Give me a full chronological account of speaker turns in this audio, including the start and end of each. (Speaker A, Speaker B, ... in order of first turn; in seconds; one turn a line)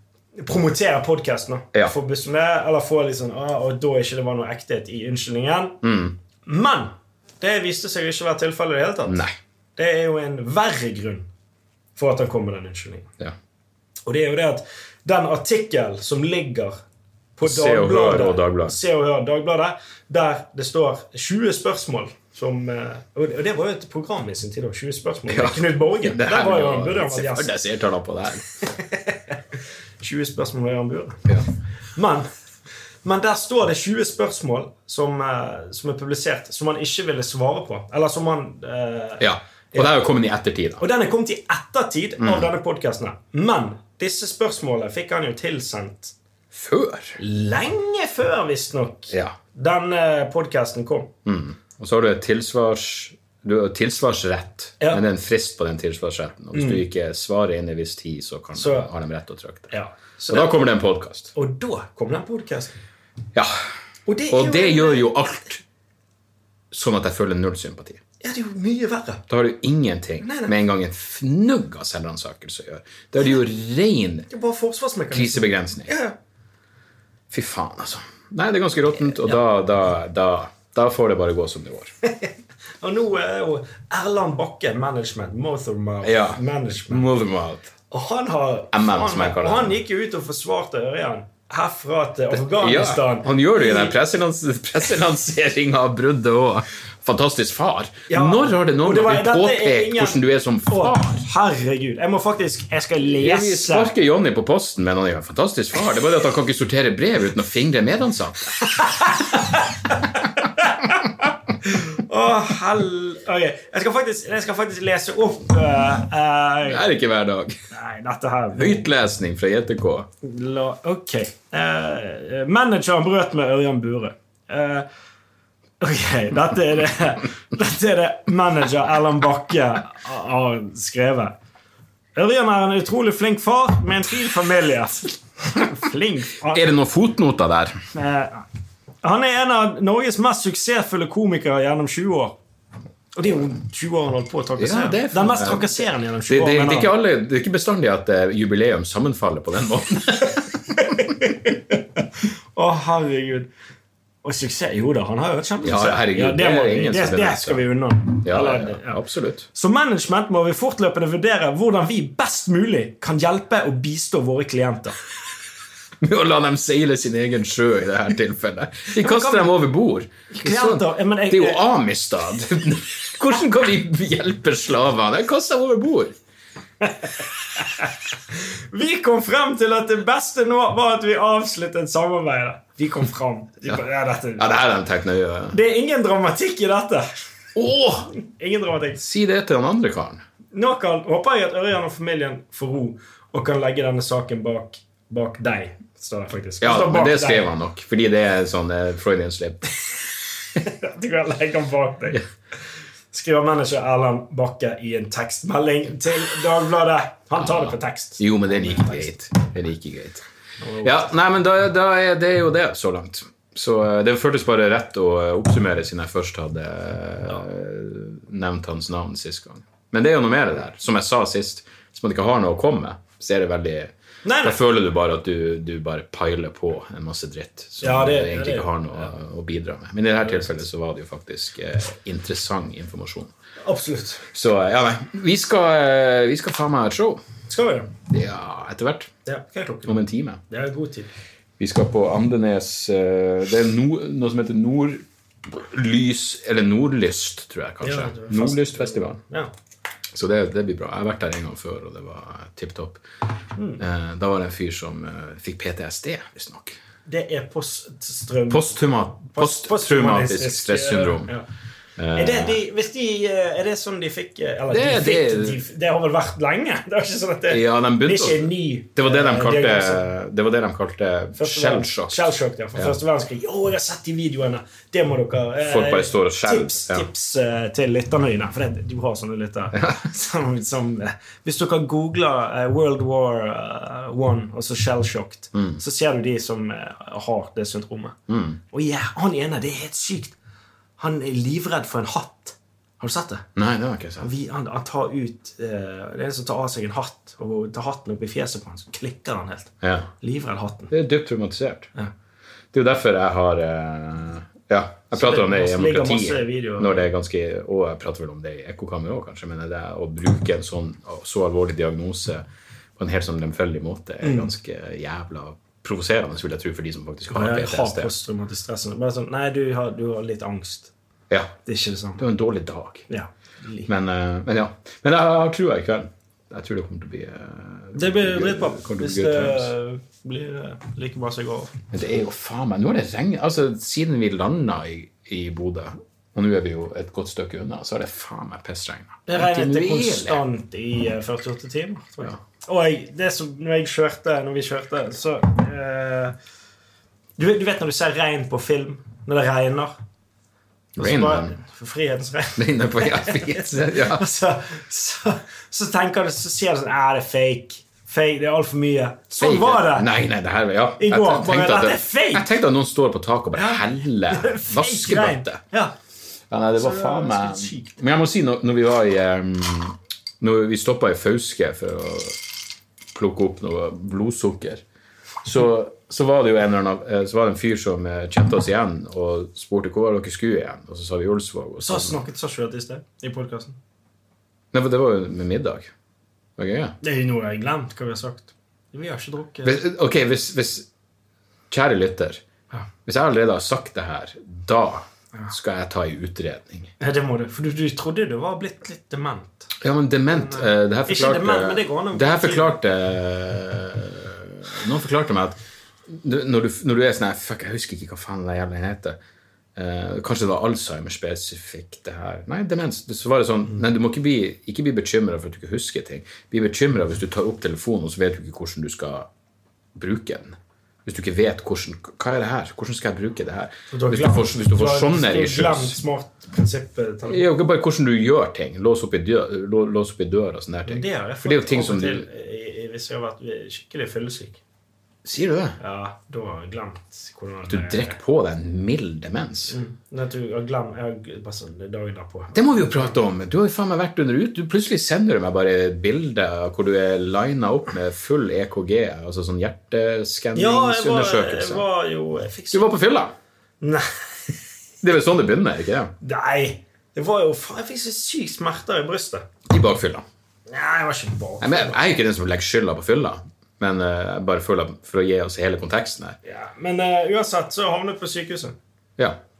Speaker A: 0.4-5.8
Speaker B: 5.8-6.2
Speaker A: 6.4-9.2
Speaker B: 9.0-9.3
Speaker A: 9.8-11.3
Speaker A: 11.9-13.1
Speaker A: 14.1-16.8
Speaker A: 17.4-27.5
Speaker B: 17.4-18.8
Speaker B: 25.3-28.4
Speaker A: 28.8-29.3
Speaker A: 30.0-31.3
Speaker A: 31.9-32.3
Speaker A: 33.0-40.0
Speaker B: 39.2-40.8
Speaker A: 40.8-46.1
Speaker B: 42.2-42.5
Speaker B: 46.5-47.2
Speaker A: 47.2-51.1
Speaker B: 49.1-49.4
Speaker B: 51.2-59.7
Speaker A: 54.8-55.0
Speaker A: 56.5-56.8
Speaker A: 58.5-58.9
Speaker A: 59.7-60.6
Speaker B: 60.3-61.3
Speaker A: 61.3-62.8
Speaker A: 64.1-65.1
Speaker B: 64.3-65.6
Speaker B: 66.7-68.0
Speaker A: 68.2-69.2
Speaker B: 69.3-74.3
Speaker A: 70.2-70.5
Speaker A: 74.3-76.2
Speaker B: 75.1-75.9
Speaker B: 77.3-81.9
Speaker A: 82.0-87.0
Speaker B: 86.0-87.7
Speaker A: 87.9-93.9
Speaker B: 88.7-89.8
Speaker B: 92.3-101.2
Speaker A: 98.1-103.9
Speaker B: 103.0-108.7
Speaker A: 108.7-111.1
Speaker A: 111.6-116.8
Speaker B: 116.6-117.6
Speaker A: 117.7-118.9
Speaker B: 118.5-120.1
Speaker A: 120.2-124.9
Speaker A: 125.8-131.3
Speaker A: 132.2-136.7
Speaker B: 136.5-137.8
Speaker A: 137.9-138.4
Speaker A: 139.0-142.3
Speaker A: 143.1-146.9
Speaker B: 144.6-150.8
Speaker A: 150.8-151.7
Speaker A: 152.5-153.5
Speaker A: 154.2-159.0
Speaker B: 155.6-157.6
Speaker B: 158.2-159.5
Speaker A: 159.5-165.0
Speaker B: 166.0-176.1
Speaker A: 169.0-169.5
Speaker A: 170.3-171.6
Speaker A: 176.8-184.5
Speaker B: 184.4-185.6
Speaker A: 185.5-187.1
Speaker B: 187.5-188.1
Speaker A: 188.2-189.0
Speaker B: 189.0-190.2
Speaker A: 190.5-197.5
Speaker B: 196.6-199.7
Speaker A: 200.6-202.2
Speaker A: 203.1-209.1
Speaker B: 207.4-210.2
Speaker A: 210.6-211.1
Speaker B: 210.8-233.3
Speaker A: 224.2-224.6
Speaker A: 227.8-229.0
Speaker A: 230.2-230.5
Speaker A: 233.6-234.2
Speaker B: 234.3-237.2
Speaker A: 237.5-237.9
Speaker B: 238.1-239.1
Speaker A: 239.2-240.0
Speaker B: 239.8-240.4
Speaker A: 240.5-241.1
Speaker B: 241.6-249.2
Speaker A: 247.8-249.5
Speaker B: 250.1-253.0
Speaker A: 253.6-253.8
Speaker B: 253.8-256.8
Speaker A: 257.1-261.4
Speaker B: 258.5-261.4
Speaker B: 262.0-262.6
Speaker A: 262.1-270.0
Speaker B: 264.7-265.6
Speaker B: 267.5-272.9
Speaker A: 271.3-288.1
Speaker B: 275.6-277.1
Speaker B: 285.5-285.8
Speaker B: 288.3-288.6
Speaker A: 288.7-290.4
Speaker A: 291.0-293.4
Speaker B: 293.6-294.3
Speaker A: 294.2-300.9
Speaker B: 299.8-300.1
Speaker B: 300.9-301.9
Speaker B: 302.7-312.4
Speaker A: 305.1-307.1
Speaker B: 313.0-318.1
Speaker A: 314.2-314.5
Speaker A: 317.3-320.9
Speaker B: 321.3-321.6
Speaker A: 321.6-322.2
Speaker B: 322.2-323.1
Speaker A: 323.1-323.9
Speaker B: 323.9-329.7
Speaker A: 327.9-331.7
Speaker B: 331.9-340.4
Speaker A: 339.3-346.4
Speaker A: 347.4-349.9
Speaker B: 350.9-351.6
Speaker A: 351.0-360.1
Speaker B: 352.6-354.2
Speaker B: 359.4-365.6
Speaker A: 361.0-362.5
Speaker A: 363.5-365.9
Speaker B: 366.5-372.4
Speaker A: 366.8-367.9
Speaker B: 373.1-374.8
Speaker B: 375.4-382.2
Speaker A: 381.8-383.8
Speaker B: 384.7-385.9
Speaker B: 386.6-386.9
Speaker A: 387.0-389.8
Speaker B: 389.6-390.9
Speaker B: 391.7-392.4
Speaker B: 393.1-396.9
Speaker A: 397.0-399.7
Speaker B: 399.8-409.2
Speaker A: 400.3-402.8
Speaker B: 409.8-419.3
Speaker B: 419.9-426.0
Speaker A: 423.9-427.4
Speaker B: 427.2-432.3
Speaker A: 430.9-434.6
Speaker B: 435.2-435.8
Speaker A: 435.8-438.2
Speaker B: 437.7-439.8
Speaker A: 439.7-443.2
Speaker B: 442.5-451.9
Speaker A: 450.5-452.9
Speaker B: 452.7-453.3
Speaker A: 453.8-454.5
Speaker B: 455.0-456.1
Speaker A: 456.2-459.4
Speaker B: 459.7-460.2
Speaker A: 460.7-462.0
Speaker B: 461.6-466.4
Speaker A: 466.4-468.8